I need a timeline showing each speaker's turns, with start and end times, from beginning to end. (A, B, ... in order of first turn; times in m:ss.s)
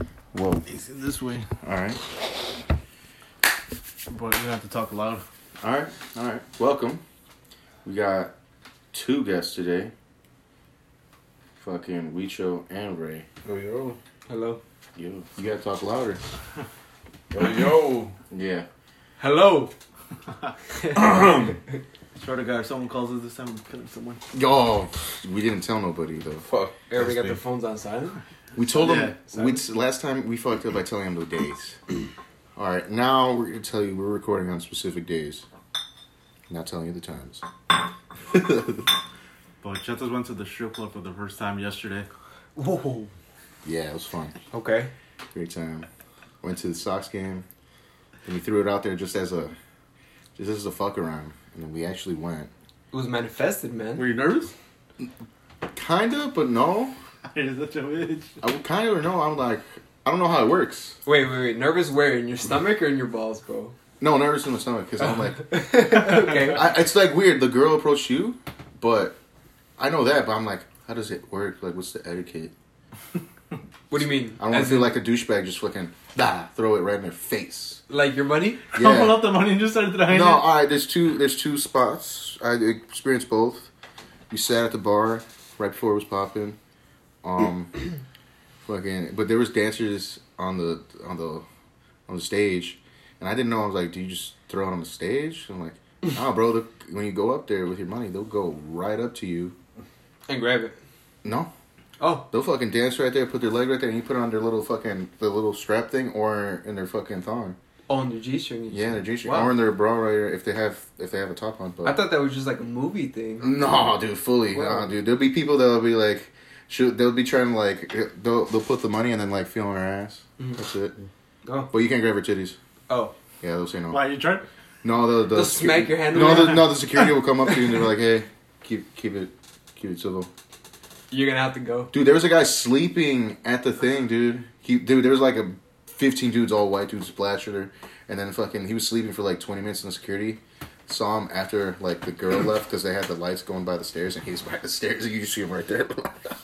0:00.3-0:00.6 A
0:00.7-0:01.5 B
0:01.6-0:02.0 A
0:04.1-0:05.2 B
0:05.6-0:07.0 A
0:07.8-0:08.3 A
0:08.9-0:09.9 A
0:11.6-0:13.2 A
0:13.4-0:14.0 C
0:14.3-0:14.6 D
0:15.0-0:16.2 A
0:17.3-0:18.2 C
0:18.3-0:18.7 A
0:19.2-0:19.7 D
0:20.8-0:21.5 D
0:20.9-0:21.6 C
0:22.1-0:24.2 B
0:24.3-0:26.4 A
0:26.4-0:27.4 C
0:26.9-0:28.2 D
0:28.6-0:31.8 A
0:28.8-0:29.2 B
0:28.8-0:29.6 D
0:32.6-0:35.4 A
0:36.5-0:37.4 A
0:38.3-0:38.8 A
0:39.6-0:42.1 B
0:42.6-0:43.1 D
0:43.6-0:44.3 A
0:44.5-0:44.9 D
0:45.3-0:45.9 A
0:46.4-0:47.4 A
0:48.2-0:49.5 A
0:50.4-0:52.5 A
0:52.9-0:54.1 D
0:54.0-0:54.5 B
0:55.7-0:57.0 A
0:57.3-0:58.3 B
0:58.4-1:01.0 A
1:01.0-1:03.7 D
1:04.0-1:09.2 A
1:05.3-1:06.7 D
1:09.8-1:12.5 A
1:13.9-1:15.0 D
1:13.9-1:17.8 A
1:17.9-1:18.6 D
1:18.7-1:20.5 B
1:18.7-1:19.3 A
1:20.0-1:23.7 A
1:24.3-1:26.6 A
1:27.2-1:27.8 A
1:28.6-1:31.4 A
1:32.1-1:39.5 A
1:40.3-1:40.8 D
1:41.2-1:41.5 A
1:42.0-1:42.3 D
1:42.3-1:47.6 A
1:47.9-1:49.5 D
1:48.7-1:52.0 A
1:51.8-1:53.7 D
1:53.4-2:01.0 A
1:54.5-1:54.9 D
2:01.4-2:01.7 D
2:01.7-2:02.6 A
2:02.9-2:03.1 D
2:03.4-2:04.0 A
2:03.9-2:04.4 B
2:04.8-2:10.3 A
2:05.3-2:06.8 D
2:11.1-2:11.9 D
2:11.9-2:26.3 A